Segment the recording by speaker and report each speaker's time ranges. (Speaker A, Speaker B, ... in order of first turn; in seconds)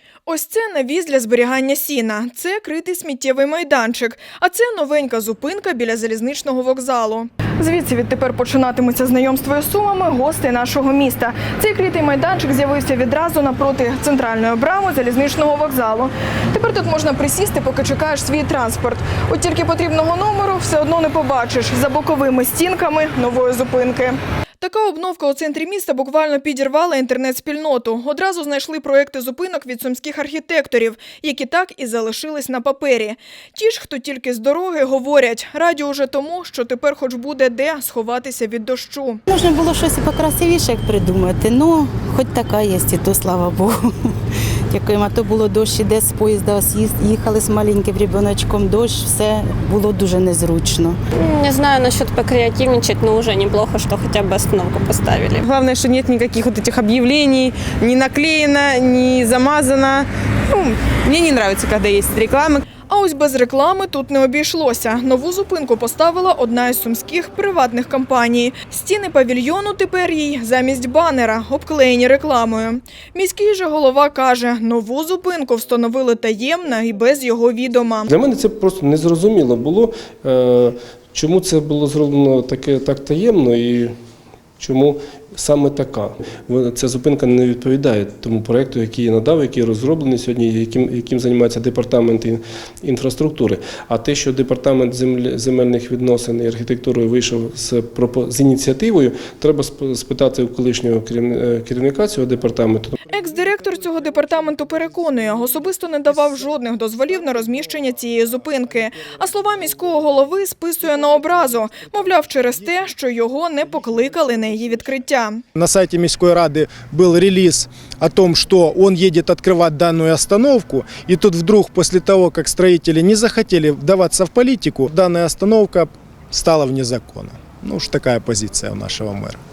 Speaker A: 0.3-39.2, 62.9-78.0, 103.1-115.4
Speaker B: 39.3-43.9, 44.7-51.0
Speaker C: 51.1-55.4
Speaker D: 55.4-62.6
Speaker E: 78.1-84.0, 84.6-103.0
Speaker F: 115.5-129.4